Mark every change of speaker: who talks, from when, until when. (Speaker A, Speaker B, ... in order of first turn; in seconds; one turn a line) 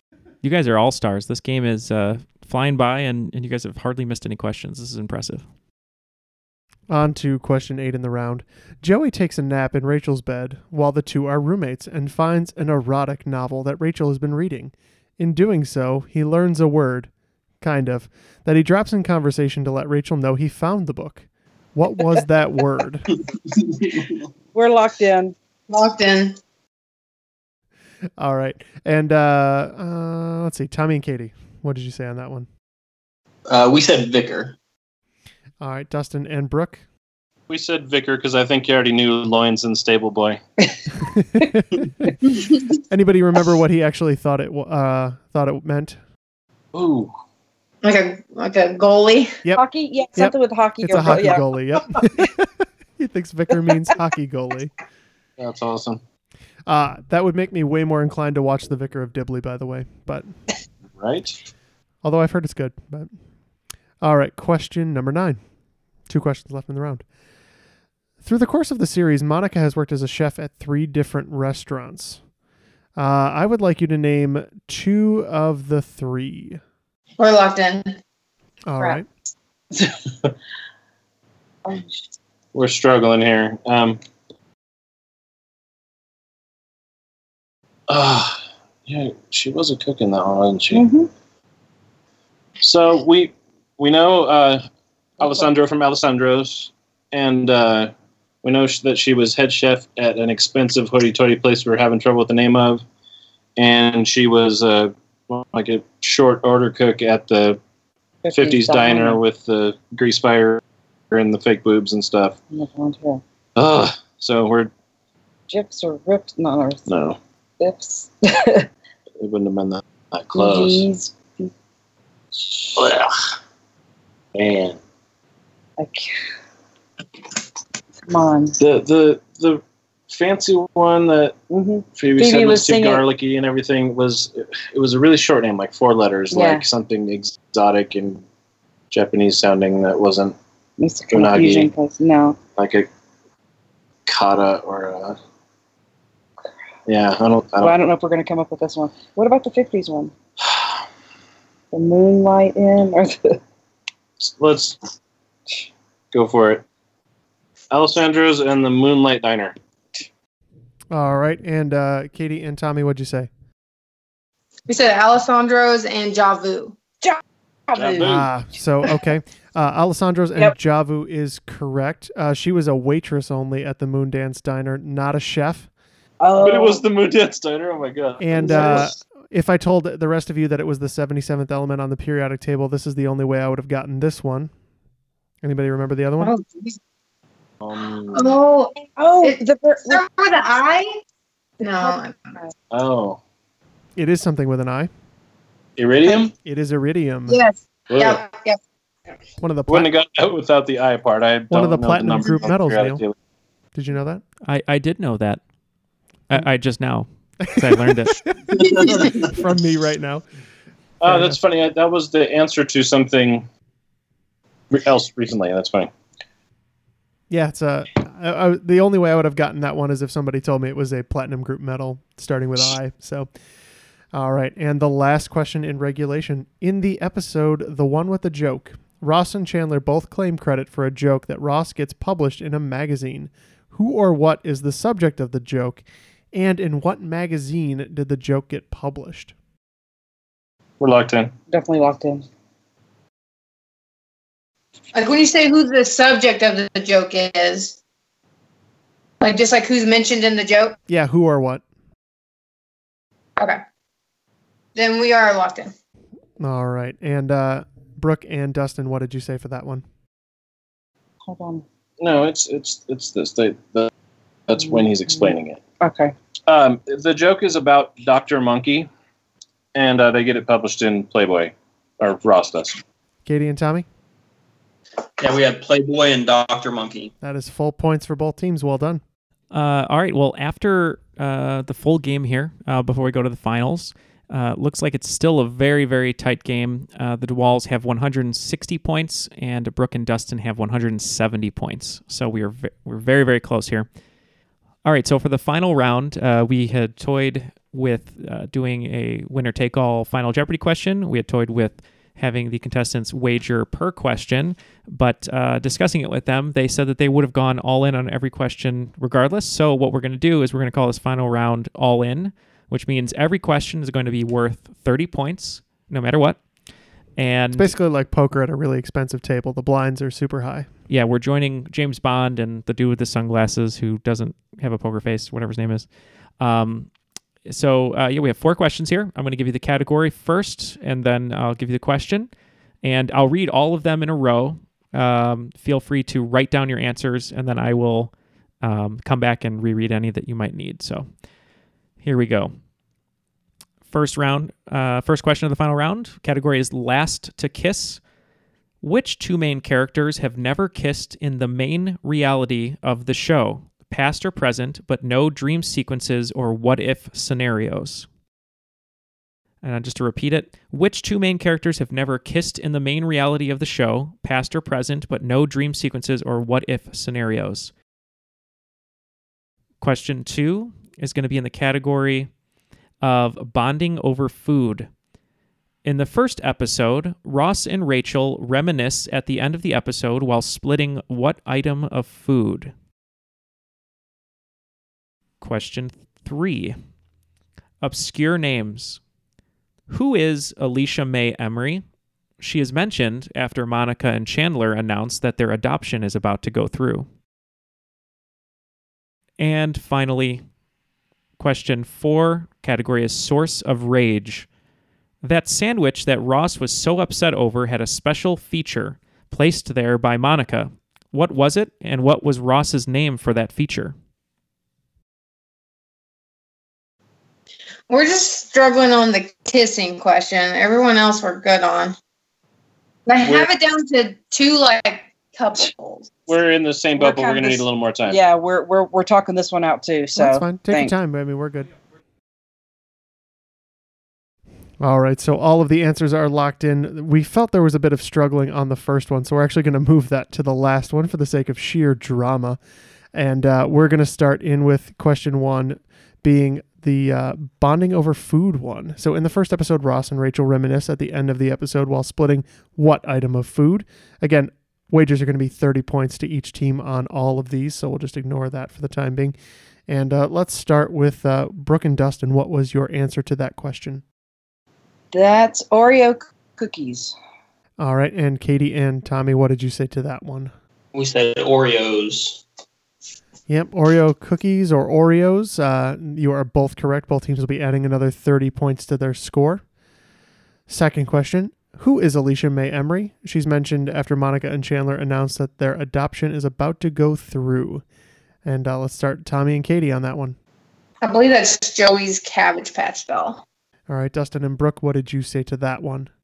Speaker A: 0.4-5.4
Speaker B: 6.9-17.1
Speaker B: 17.6-23.1
Speaker C: 24.5-25.3
Speaker D: 25.7-26.4
Speaker B: 28.2-32.5
Speaker E: 33.5-34.5
Speaker B: 35.6-36.8
Speaker F: 37.5-40.4
Speaker B: 41.0-41.8
Speaker B: 42.9-46.0
Speaker F: 46.7-47.1
Speaker D: 47.8-49.4
Speaker C: 49.5-51.5
Speaker B: 50.1-54.7
Speaker F: 55.4-56.0
Speaker B: 56.7-60.3
Speaker F: 61.0-61.3
Speaker B: 62.0-63.1
Speaker B: 64.0-65.4
Speaker B: 66.1-67.0
Speaker B: 68.2-72.2
Speaker B: 73.0-76.6
Speaker D: 77.2-78.0
Speaker B: 78.7-79.0
Speaker C: 81.7-82.0
Speaker F: 82.5-84.0
Speaker F: 87.9-90.8
Speaker C: 90.7-91.1
Speaker F: 92.6-94.6
Speaker F: 95.2-97.9
Speaker F: 98.4-102.8
Speaker F: 103.6-107.6
Speaker C: 108.2-109.2
Speaker F: 108.3-112.4
Speaker C: 112.5-113.2
Speaker F: 113.5-114.7
Speaker C: 115.5-116.9
Speaker F: 116.9-117.2
Speaker C: 117.6-118.7
Speaker F: 119.2-120.8
Speaker C: 120.3-121.5
Speaker F: 124.3-124.8
Speaker C: 125.8-126.1
Speaker C: 128.1-128.6
Speaker F: 128.6-131.4
Speaker C: 131.5-133.1
Speaker F: 131.9-138.2
Speaker C: 136.3-136.7
Speaker F: 138.9-140.3
Speaker C: 140.8-142.4
Speaker F: 141.1-141.7
Speaker F: 142.6-142.9
Speaker F: 144.1-145.2
Speaker F: 146.9-147.8
Speaker C: 147.6-150.1
Speaker C: 151.7-153.4
Speaker F: 154.2-154.8
Speaker F: 156.1-156.6
Speaker F: 157.7-159.6
Speaker B: 160.9-163.3
Speaker D: 164.7-166.8
Speaker C: 167.0-168.2
Speaker F: 167.7-168.3
Speaker B: 168.0-175.7
Speaker C: 176.2-176.8
Speaker F: 176.4-178.9
Speaker B: 178.2-184.5
Speaker C: 178.4-178.9
Speaker B: 185.4-186.3
Speaker D: 186.2-186.8
Speaker F: 187.6-188.4
Speaker D: 188.1-191.0
Speaker C: 189.0-190.0
Speaker D: 191.6-192.3
Speaker C: 191.8-192.5
Speaker F: 192.7-193.2
Speaker B: 193.9-194.9
Speaker F: 195.8-196.3
Speaker B: 196.4-197.4
Speaker D: 197.3-198.6
Speaker F: 197.9-198.2
Speaker B: 199.4-199.9
Speaker F: 199.7-203.1
Speaker B: 201.5-203.0
Speaker B: 203.7-204.2
Speaker A: 204.4-205.4
Speaker A: 206.3-208.2
Speaker B: 207.4-207.9
Speaker B: 208.5-210.2
Speaker F: 211.0-213.4
Speaker B: 211.0-211.4
Speaker F: 214.7-215.9
Speaker B: 217.3-223.3
Speaker B: 224.1-239.3
Speaker F: 240.8-241.3
Speaker C: 241.5-242.2
Speaker D: 244.9-247.8
Speaker D: 249.2-250.8
Speaker B: 250.9-251.6
Speaker D: 254.7-255.7
Speaker B: 256.4-259.8
Speaker C: 261.2-261.6
Speaker F: 262.0-263.9
Speaker F: 264.5-265.6
Speaker C: 264.6-266.1
Speaker F: 266.5-268.9
Speaker F: 269.7-272.8
Speaker B: 273.2-273.9
Speaker E: 275.2-277.1
Speaker B: 277.2-279.0
Speaker A: 279.5-293.9
Speaker A: 294.8-316.4
Speaker A: 317.2-317.7
Speaker B: 317.5-320.7
Speaker A: 320.9-325.9
Speaker A: 326.4-326.9
Speaker A: 327.4-332.3
Speaker A: 332.8-341.1
Speaker A: 342.0-342.5
Speaker A: 343.9-348.0
Speaker A: 348.8-358.1
Speaker A: 359.6-367.7
Speaker A: 369.8-372.3
Speaker A: 373.0-374.9
Speaker A: 375.8-382.7
Speaker A: 385.4-386.8
Speaker A: 387.8-389.0
Speaker A: 389.9-391.8
Speaker A: 392.4-397.1
Speaker A: 399.4-400.4
Speaker A: 401.4-404.5
Speaker A: 405.2-413.9
Speaker D: 417.9-421.9
Speaker D: 423.1-426.1
Speaker F: 426.3-428.2
Speaker C: 427.0-430.9
Speaker B: 430.1-431.7
Speaker B: 434.8-442.6
Speaker B: 443.1-459.4
Speaker B: 459.9-464.0
Speaker C: 465.1-467.1
Speaker B: 467.8-470.5
Speaker E: 470.9-472.4
Speaker B: 473.5-479.6
Speaker B: 480.7-487.8
Speaker B: 488.4-490.4
Speaker D: 491.0-493.4
Speaker B: 493.9-496.1